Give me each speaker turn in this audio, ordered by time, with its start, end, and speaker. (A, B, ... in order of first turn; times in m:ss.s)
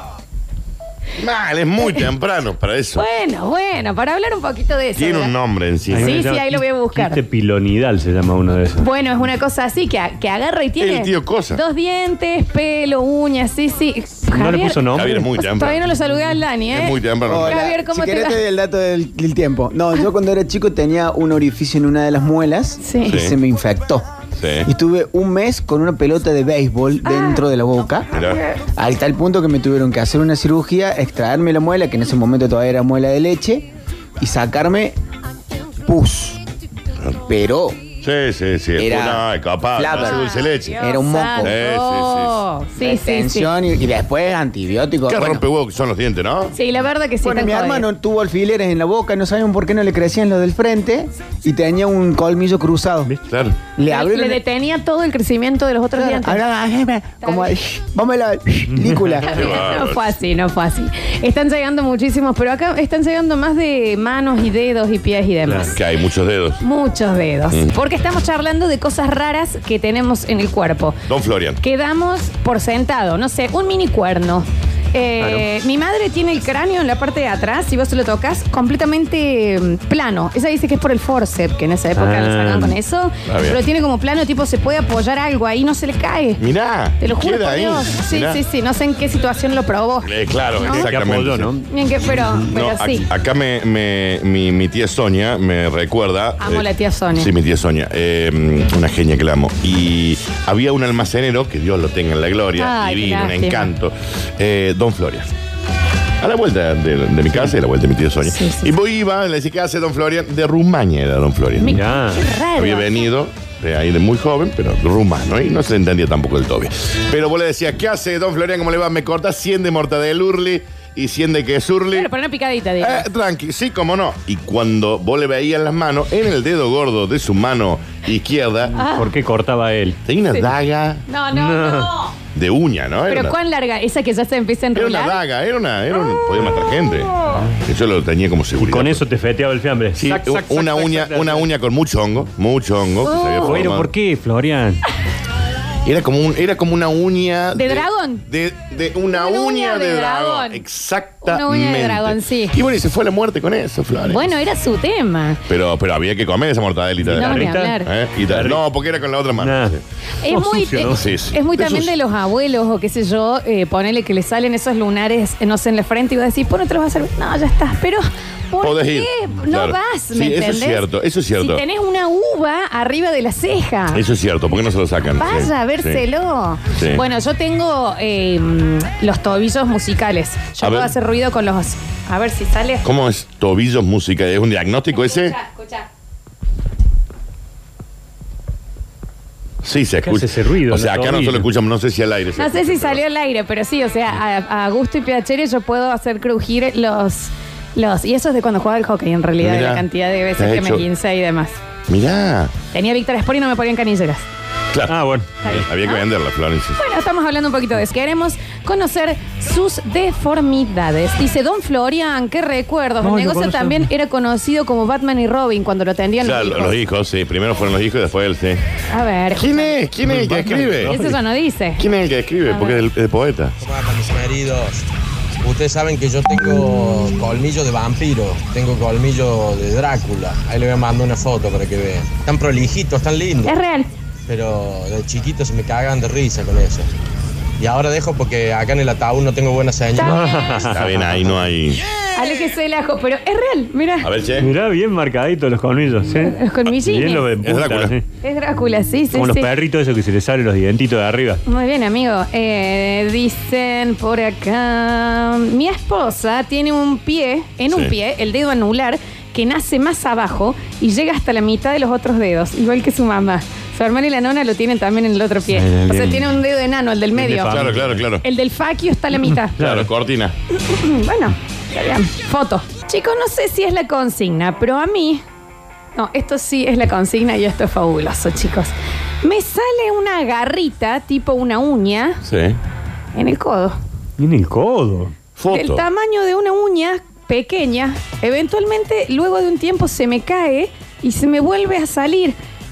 0:01.2-0:03.0 A
0:01.8-0:02.1 B
0:03.0-0:05.3 B
0:05.0-0:06.2 A
0:05.9-0:08.8 C
0:06.0-0:07.2 B
0:08.8-0:18.4 B
0:10.8-0:11.6 A
0:14.3-0:15.3 C
0:14.9-0:15.8 A
0:16.7-0:17.6 A
0:17.2-0:24.1 D
0:22.8-0:23.2 B
0:23.1-0:23.4 A
0:24.4-0:24.7 A
0:24.6-0:28.1 D
0:27.0-0:27.4 B
0:28.1-0:28.4 A
0:28.1-0:28.6 B
0:28.7-0:33.7 D
0:34.2-0:34.9 D
0:35.8-0:36.4 D
0:37.2-0:37.8 D
0:38.0-0:40.8 A
0:38.8-0:41.5 D
0:39.9-0:43.5 B
0:41.4-0:42.4 A
0:42.8-0:45.4 D
0:45.1-0:46.5 A
0:46.5-0:47.9 B
0:47.2-0:53.1 D
0:53.3-0:53.6 A
0:53.8-0:54.4 D
0:53.8-0:56.4 B
0:55.9-0:59.5 D
0:57.2-0:57.5 B
0:58.7-0:59.2 C
0:59.2-1:00.1 A
0:59.2-1:05.8 B
1:05.7-1:06.6 A
1:06.6-1:11.0 B
1:11.1-1:11.6 A
1:11.6-1:26.4 B
1:15.2-1:15.4 C
1:21.9-1:22.8 C
1:23.2-1:23.6 A
1:26.4-1:28.4 A
1:27.0-1:30.1 B
1:30.0-1:31.5 A
1:30.6-1:30.9 B
1:30.7-1:31.6 C
1:31.7-1:33.1 B
1:32.5-1:45.3 A
1:36.4-1:37.3 B
1:42.6-1:43.7 B
1:46.2-1:51.8 A
1:48.2-1:48.7 B
1:51.6-1:53.1 B
1:51.7-1:52.2 C
1:52.6-2:02.1 A
2:01.9-2:03.0 B
2:02.8-2:08.7 A
2:08.7-2:09.1 B
2:08.8-2:10.0 C
2:10.0-2:11.0 A
2:11.1-2:12.2 B
2:11.3-2:11.9 C
2:12.3-2:13.3 A
2:13.1-2:15.2 B
2:14.7-2:19.0 A
2:15.9-2:17.4 B
2:18.6-2:21.5 C
2:20.0-2:23.9 A
2:23.0-2:23.6 B
2:23.4-2:24.8 C
2:25.8-2:34.3 A
2:27.6-2:28.2 B
2:29.1-2:30.6 B
2:31.2-2:32.6 B
2:34.1-2:35.4 B
2:35.5-2:39.8 A
2:37.0-2:38.6 C
2:37.1-2:37.9 B
2:39.4-2:41.1 C
2:40.2-2:50.8 B
2:40.9-2:41.9 A
2:48.6-2:51.6 A
2:51.4-2:54.0 B
2:53.9-2:56.0 A
2:55.2-3:02.8 B
2:56.7-2:57.0 A
3:00.6-3:00.9 A
3:02.8-3:05.4 A
3:04.9-3:05.9 B
3:09.6-3:13.0 A
3:10.0-3:11.5 C
3:12.4-3:21.6 B
3:19.4-3:19.8 A
3:20.4-3:20.8 A
3:21.9-3:22.5 A
3:22.7-3:24.2 B
3:24.7-3:26.8 A
3:24.9-3:25.3 C
3:25.4-3:26.0 B
3:26.8-3:36.8 B
3:33.0-3:33.9 C
3:36.2-3:38.6 A
3:38.9-3:39.7 B
3:39.4-3:41.0 A
3:40.0-3:41.2 C
3:40.8-3:41.8 B
3:41.8-3:43.5 A
3:42.5-3:42.8 B
3:43.6-3:44.8 E
3:45.4-3:53.6 E
3:53.4-3:53.9 B
3:54.3-3:56.9 E
3:57.6-4:00.2 E
4:00.0-4:01.3 C
4:00.6-4:01.8 A
4:02.1-4:04.1 B
4:04.0-4:04.5 A
4:04.4-4:08.0 C
4:06.2-4:07.2 B
4:07.4-4:07.9 A
4:08.2-4:09.5 B
4:09.1-4:11.4 C
4:11.4-4:27.6 B
4:25.5-4:26.4 C
4:27.1-4:28.0 C
4:27.4-4:28.2 A
4:28.2-4:29.6 B
4:29.6-4:29.9 C
4:29.6-4:30.3 A
4:30.5-4:35.2 B
4:36.0-4:42.2 B
4:42.2-4:42.6 A
4:43.1-4:43.8 B
4:44.2-4:45.1 C
4:45.4-4:45.8 A
4:45.5-4:52.4 B